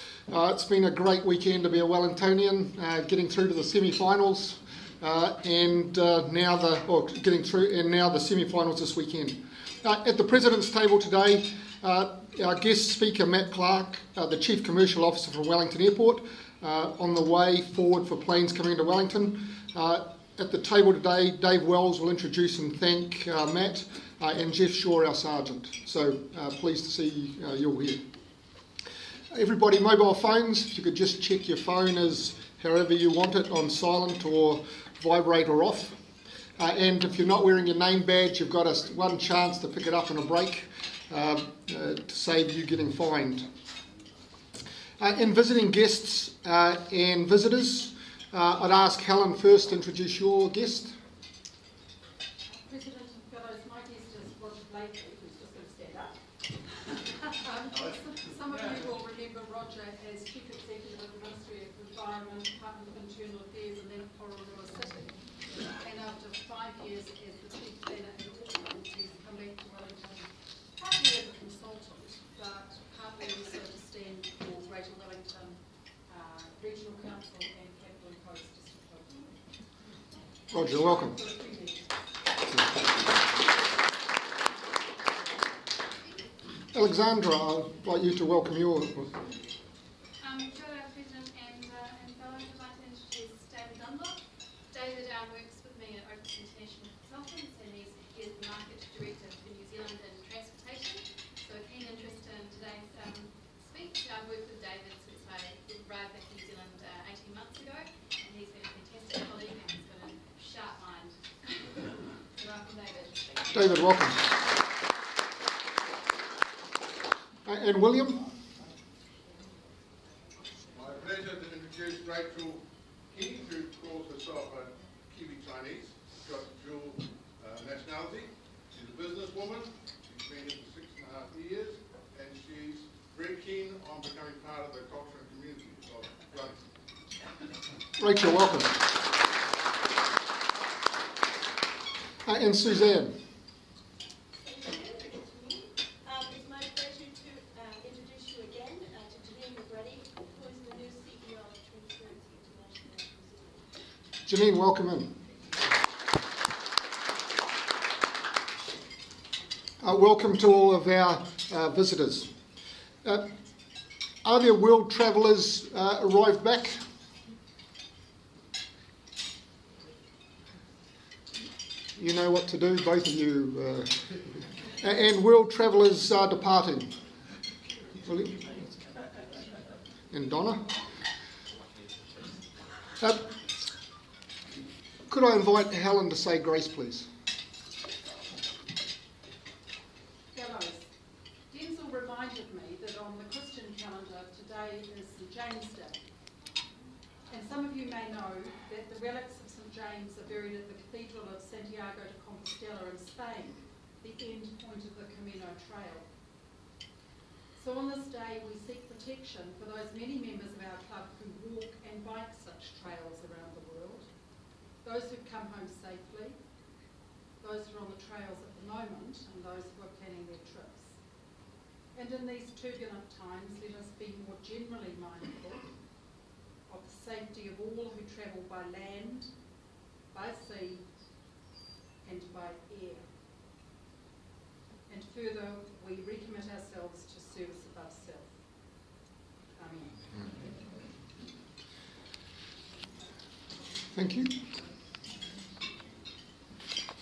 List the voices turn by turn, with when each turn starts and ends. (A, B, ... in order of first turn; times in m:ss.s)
0:00.3-0:28.0 A
0:29.3-0:36.0 A
0:36.6-0:43.5 A
0:45.0-0:50.9 A
0:52.5-0:56.2 B
0:57.2-1:05.2 B
1:05.8-1:19.3 B
1:20.5-1:21.2 A
1:20.5-1:21.9 B
1:26.7-1:29.1 A
1:30.2-1:51.8 C
1:52.4-1:53.6 C
1:53.5-1:54.2 A
1:57.4-1:58.2 A
2:00.7-2:16.6 D
2:18.0-2:18.8 A
2:22.2-2:23.1 A
2:24.4-2:33.7 E
2:34.2-2:35.1 A
2:39.8-2:42.3 A
2:44.2-2:46.8 A
2:52.0-2:54.0 A
2:54.8-2:56.9 A
2:58.1-2:58.4 A
3:00.1-3:00.7 A
3:03.0-3:03.2 A
3:05.1-3:07.1 A
3:10.3-3:10.9 B
3:11.5-3:16.0 B
3:17.3-3:26.1 B
3:27.6-3:34.1 B
3:34.8-3:36.4 B
3:37.4-3:41.0 B
3:42.0-3:45.7 B
3:46.7-3:49.3 B
3:50.1-3:50.8 B
3:52.0-3:53.0 B
3:54.9-3:58.3 B
3:59.6-4:00.0 B
4:03.9-4:04.4 A